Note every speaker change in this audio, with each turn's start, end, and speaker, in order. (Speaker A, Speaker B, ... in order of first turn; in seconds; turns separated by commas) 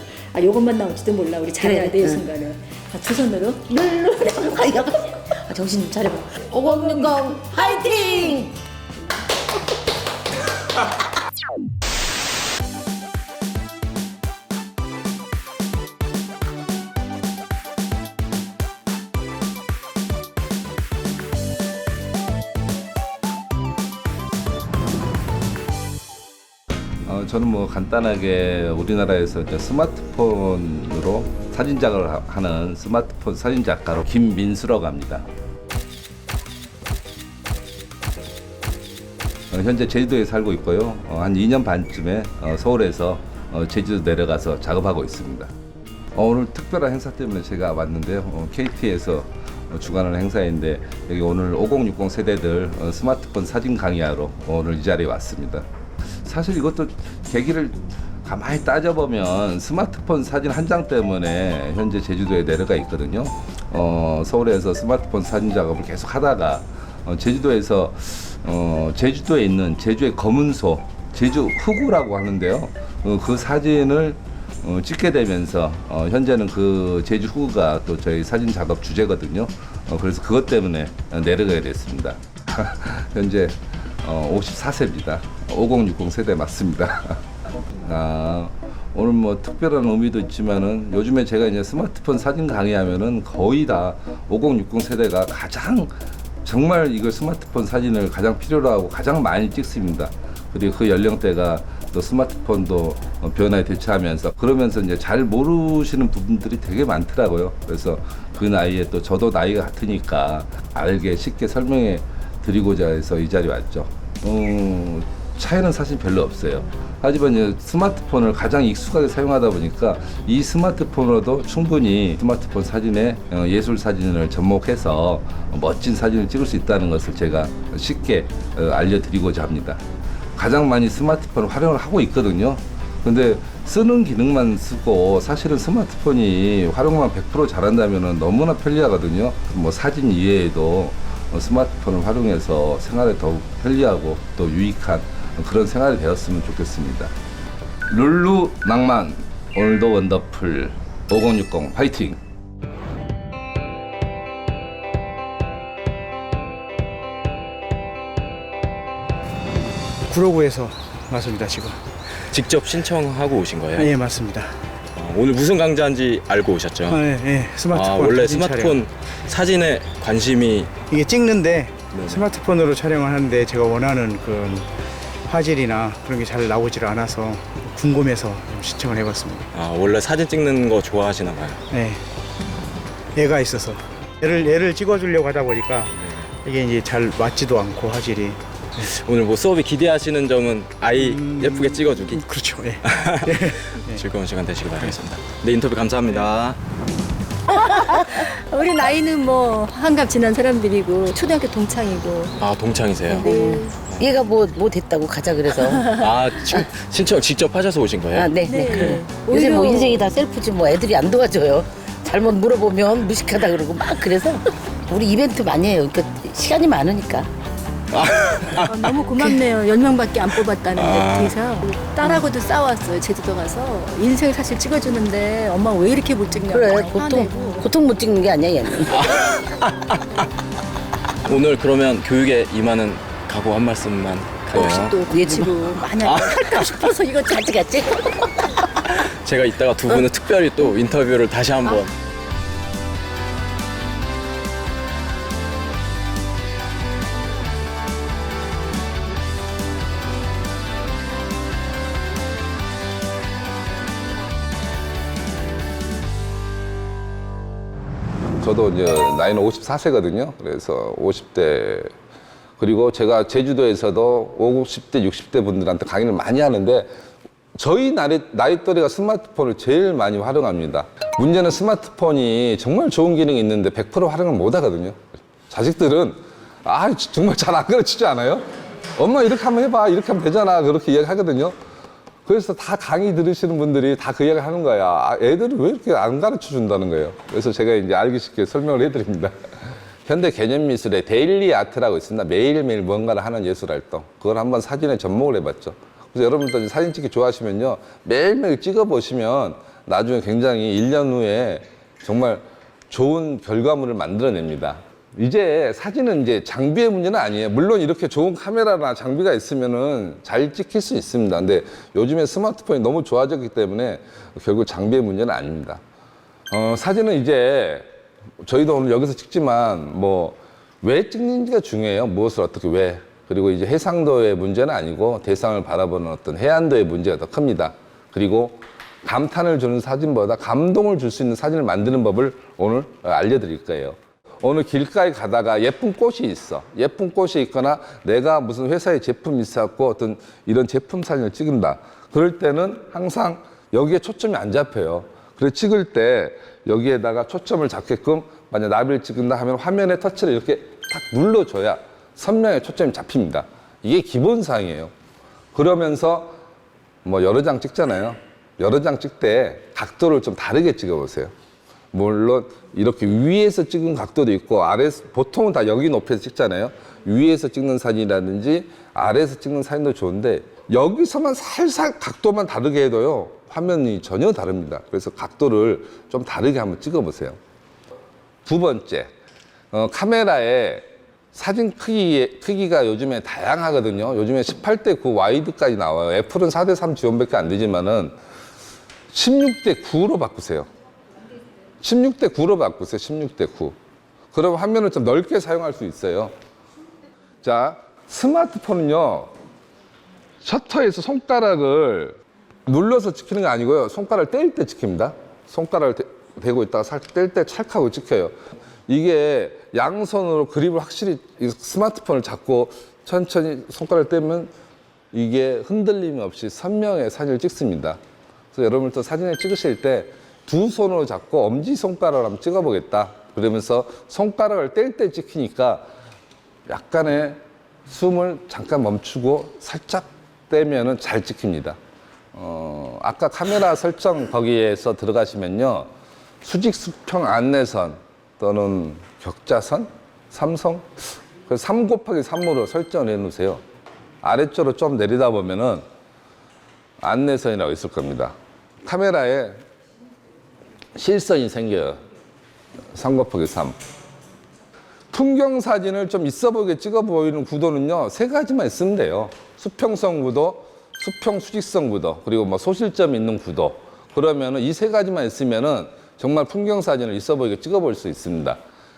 Speaker A: 0.3-3.7, Speaker B: 1.6-2.2, Speaker B: 3.7-8.5, Speaker C: 27.0-35.2, Speaker C: 39.5-45.5, Speaker C: 46.1-55.6, Speaker C: 56.2-87.2, Speaker C: 87.8-95.9, Speaker C: 96.4-129.8, Speaker C: 130.4-147.1, Speaker C: 147.9-152.2, Speaker D: 160.1-161.8, Speaker E: 162.3-163.9, Speaker D: 163.8-164.5, Speaker E: 164.9-167.1, Speaker D: 166.9-168.8, Speaker E: 167.7-170.7, Speaker D: 170.9-174.7, Speaker E: 171.9-172.2, Speaker D: 175.3-179.5, Speaker E: 179.5-181.6, Speaker D: 181.7-182.0, Speaker D: 183.2-188.8, Speaker E: 185.9-186.3, Speaker E: 188.8-192.2, Speaker D: 191.0-194.1, Speaker E: 192.8-196.6, Speaker A: 197.5-202.3, Speaker E: 202.4-203.3, Speaker B: 203.1-206.0, Speaker A: 203.1-203.7, Speaker E: 203.8-204.1, Speaker A: 205.7-206.0, Speaker E: 206.0-208.4, Speaker B: 208.1-217.3, Speaker A: 208.5-210.1, Speaker E: 217.9-218.8, Speaker A: 218.6-227.7, Speaker E: 220.7-221.4, Speaker B: 222.0-222.3, Speaker B: 226.5-229.1, Speaker E: 228.9-230.2, Speaker E: 231.2-236.9, Speaker A: 234.5-238.3, Speaker B: 235.2-235.4, Speaker E: 238.9-241.9, Speaker C: 258.4-261.9, Speaker C: 262.6-266.9, Speaker C: 267.6-278.4, Speaker C: 278.9-281.6, Speaker C: 282.2-289.3, Speaker C: 290.1-315.8, Speaker C: 316.5-317.9, Speaker C: 318.4-354.9, Speaker C: 355.5-356.3, Speaker C: 357.0-361.3, Speaker C: 361.9-377.4, Speaker C: 378.4-379.1, Speaker C: 379.7-388.1, Speaker C: 389.1-390.7, Speaker C: 391.8-393.8, Speaker C: 394.3-396.3, Speaker C: 397.4-399.3, Speaker C: 400.4-408.3, Speaker C: 408.9-414.5, Speaker C: 415.1-418.0, Speaker C: 418.5-425.8, Speaker C: 426.7-431.8, Speaker C: 432.3-435.9, Speaker C: 436.4-443.6, Speaker C: 444.2-445.8, Speaker C: 447.0-448.3, Speaker C: 448.8-449.6, Speaker C: 451.0-452.0, Speaker C: 452.9-453.8, Speaker C: 455.1-468.6